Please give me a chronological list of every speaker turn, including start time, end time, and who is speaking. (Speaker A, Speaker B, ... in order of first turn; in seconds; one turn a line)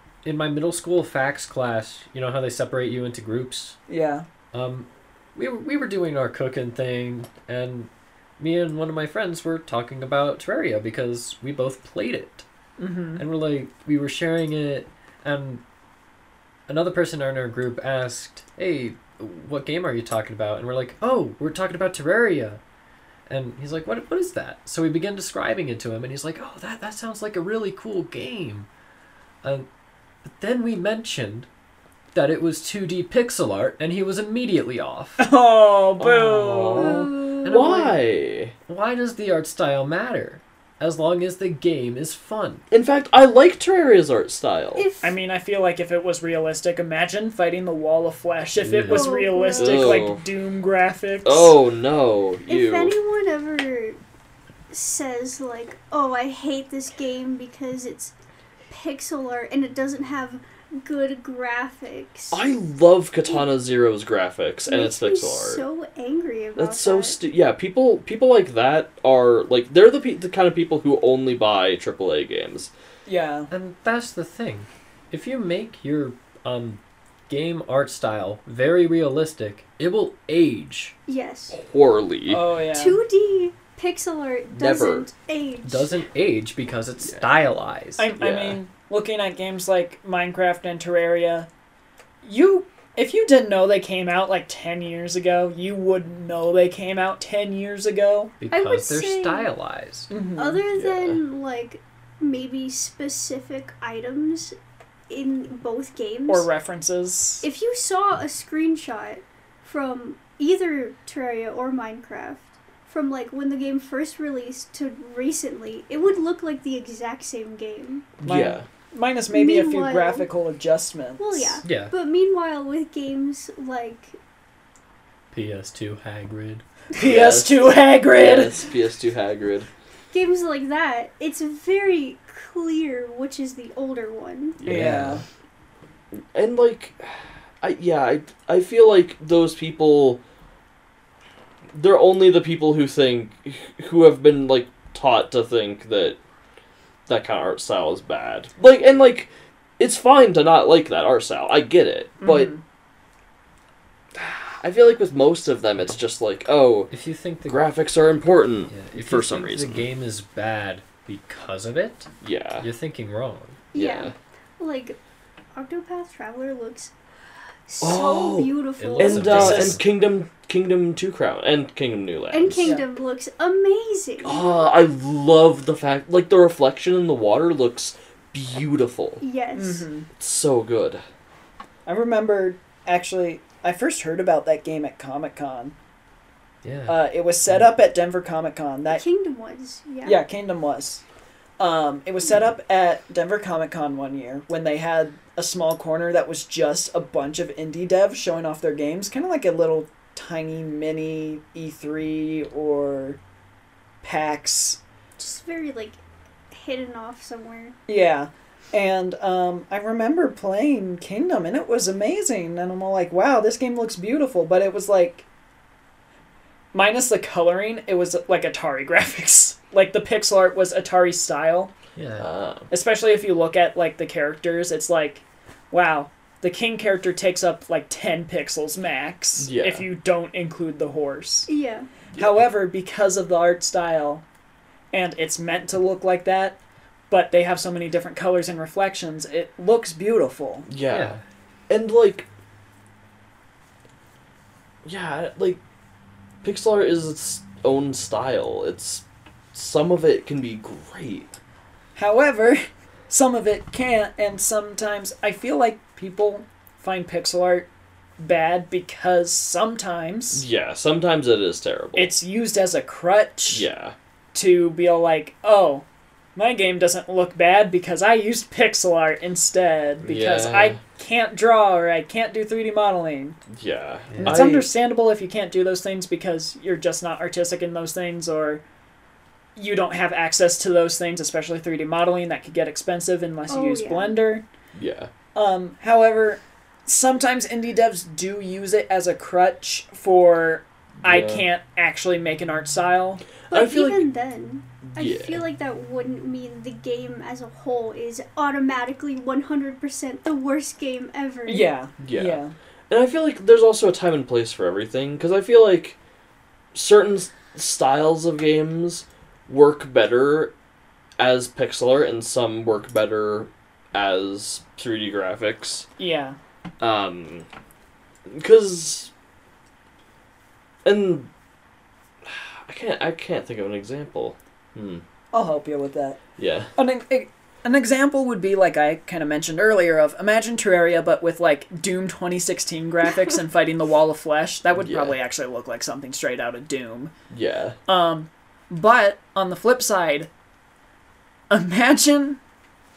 Speaker A: 0.2-3.8
Speaker B: 3.9-4.2
Speaker A: 4.5-12.4
Speaker B: 12.8-13.2
Speaker A: 13.2-15.6
Speaker A: 16.7-22.6
Speaker A: 23.3-28.7
Speaker A: 30.2-31.5
Speaker A: 32.1-35.2
Speaker B: 35.2-37.0
Speaker C: 36.0-38.5
Speaker D: 36.7-37.6
Speaker A: 37.4-38.0
Speaker A: 38.7-42.6
Speaker C: 42.7-44.9
Speaker D: 44.8-45.1
Speaker B: 45.0-51.5
Speaker A: 48.6-49.1
Speaker D: 48.9-50.1
Speaker C: 49.6-50.2
Speaker C: 51.2-52.9
Speaker D: 52.5-54.0
Speaker D: 54.7-58.1
Speaker D: 58.7-62.4
Speaker C: 62.3-65.6
Speaker D: 64.7-67.2
Speaker C: 66.5-72.7
Speaker B: 73.0-73.5
Speaker A: 73.5-80.9
Speaker D: 81.1-81.6
Speaker C: 81.5-82.4
Speaker B: 82.3-83.0
Speaker D: 82.7-85.9
Speaker C: 84.5-85.1
Speaker A: 85.6-88.1
Speaker B: 88.0-91.5
Speaker C: 88.2-88.6
Speaker B: 92.2-98.3
Speaker A: 98.4-100.1
Speaker D: 98.5-99.5
Speaker B: 100.1-100.6
Speaker D: 100.4-104.5
Speaker C: 100.7-101.2
Speaker D: 105.1-106.5
Speaker B: 106.3-107.4
Speaker D: 107.4-118.1
Speaker C: 118.2-118.6
Speaker B: 118.2-121.6
Speaker D: 119.3-120.2
Speaker D: 121.2-124.2
Speaker A: 121.6-121.9
Speaker A: 125.3-126.6
Speaker B: 126.9-128.6
Speaker C: 127.0-129.7
Speaker D: 130.1-134.6
Speaker C: 134.6-135.1
Speaker A: 134.7-135.2
Speaker B: 134.7-135.2
Speaker C: 136.1-140.2
Speaker C: 141.7-146.2
Speaker C: 147.1-152.5
Speaker B: 152.2-152.6
Speaker C: 154.1-156.9
Speaker A: 156.9-157.6
Speaker C: 157.5-159.8
Speaker A: 158.7-163.6
Speaker C: 162.2-162.7
Speaker C: 163.7-164.1
Speaker D: 163.7-165.0
Speaker D: 165.5-166.9
Speaker D: 167.7-169.8
Speaker C: 167.8-172.7
Speaker A: 168.8-169.8
Speaker B: 169.4-169.8
Speaker D: 172.3-174.7
Speaker C: 174.2-179.2
Speaker D: 179.2-179.9
Speaker B: 179.6-180.1
Speaker C: 180.2-181.0
Speaker B: 181.8-185.7
Speaker A: 186.6-187.6
Speaker B: 186.9-189.0
Speaker D: 188.9-190.2
Speaker B: 190.0-191.0
Speaker B: 191.6-203.2
Speaker B: 204.0-204.8
Speaker D: 205.2-207.8
Speaker B: 207.9-215.2
Speaker B: 216.7-221.7
Speaker A: 221.9-222.3
Speaker C: 222.2-222.7
Speaker B: 222.7-231.5
Speaker C: 229.4-229.8
Speaker D: 231.5-231.9
Speaker B: 232.2-234.2
Speaker B: 234.9-236.6
Speaker B: 237.1-240.7
Speaker C: 240.7-241.2
Speaker A: 240.9-241.2
Speaker C: 241.7-242.3
Speaker C: 244.8-245.6
Speaker C: 246.4-249.0
Speaker C: 249.5-251.3
Speaker B: 251.9-257.7
Speaker B: 258.2-260.4
Speaker C: 260.3-262.1
Speaker B: 261.9-263.6
Speaker C: 263.5-263.9
Speaker B: 264.3-265.8
Speaker B: 266.4-273.4
Speaker C: 270.0-270.8
Speaker C: 273.5-274.7
Speaker A: 274.1-274.4
Speaker B: 274.2-278.6
Speaker B: 279.6-284.4
Speaker D: 283.5-284.2
Speaker C: 284.7-285.1
Speaker B: 285.3-293.2
Speaker C: 291.0-291.4
Speaker C: 293.5-294.1
Speaker D: 293.5-301.7
Speaker C: 294.8-295.4
Speaker B: 301.4-302.5
Speaker C: 302.0-305.9
Speaker C: 306.7-310.5
Speaker C: 311.2-315.9
Speaker B: 316.0-316.4
Speaker C: 316.8-317.4
Speaker C: 318.3-319.1
Speaker C: 320.8-321.3
Speaker C: 322.2-325.0
Speaker B: 325.3-326.2
Speaker C: 326.4-326.7
Speaker B: 326.8-337.1
Speaker C: 334.8-335.1
Speaker C: 337.3-337.8
Speaker B: 337.9-340.3
Speaker B: 341.5-342.4